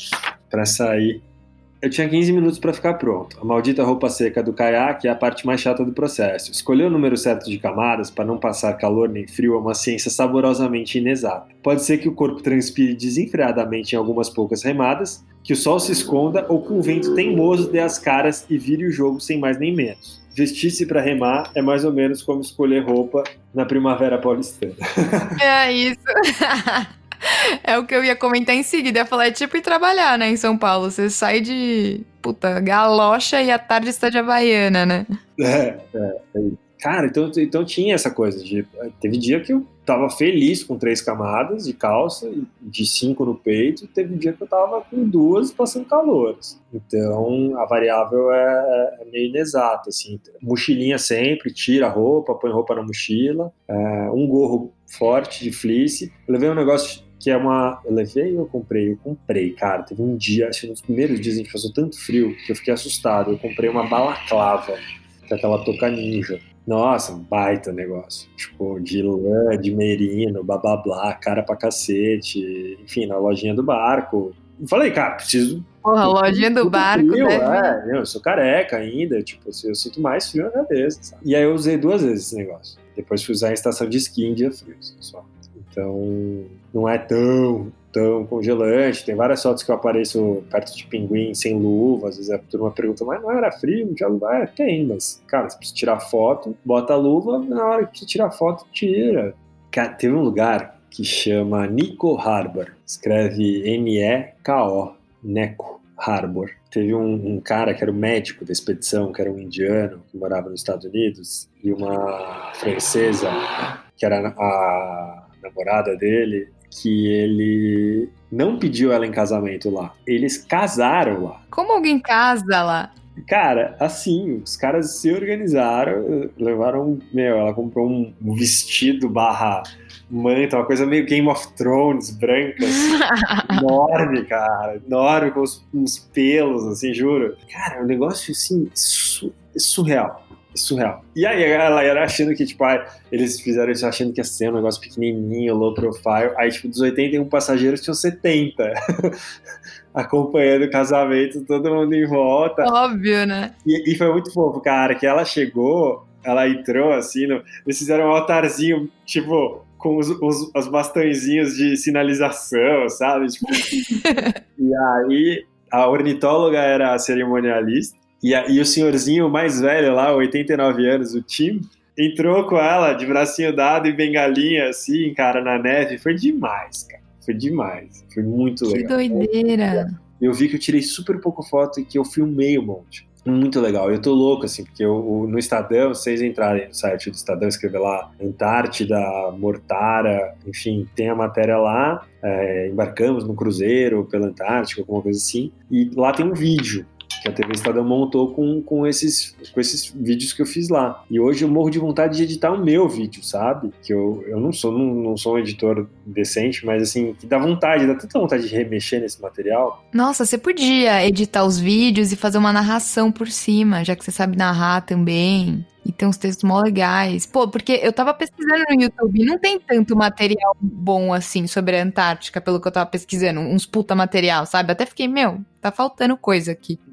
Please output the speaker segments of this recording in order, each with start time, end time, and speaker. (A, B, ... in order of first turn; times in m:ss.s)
0:00.5-0:01.2 A
0:01.8-0:25.4 A
0:25.4-0:35.2 B
0:35.4-1:53.4 A
1:15.8-1:17.8 B
1:54.0-2:01.4 A
2:01.5-2:02.9 B
2:03.2-2:29.2 A
2:12.7-2:13.7 B
2:29.9-2:32.7 A
2:32.6-2:33.5 B
2:33.6-3:29.8 A
2:43.7-2:44.3 B
2:58.6-3:00.0 B
3:29.9-3:46.8 B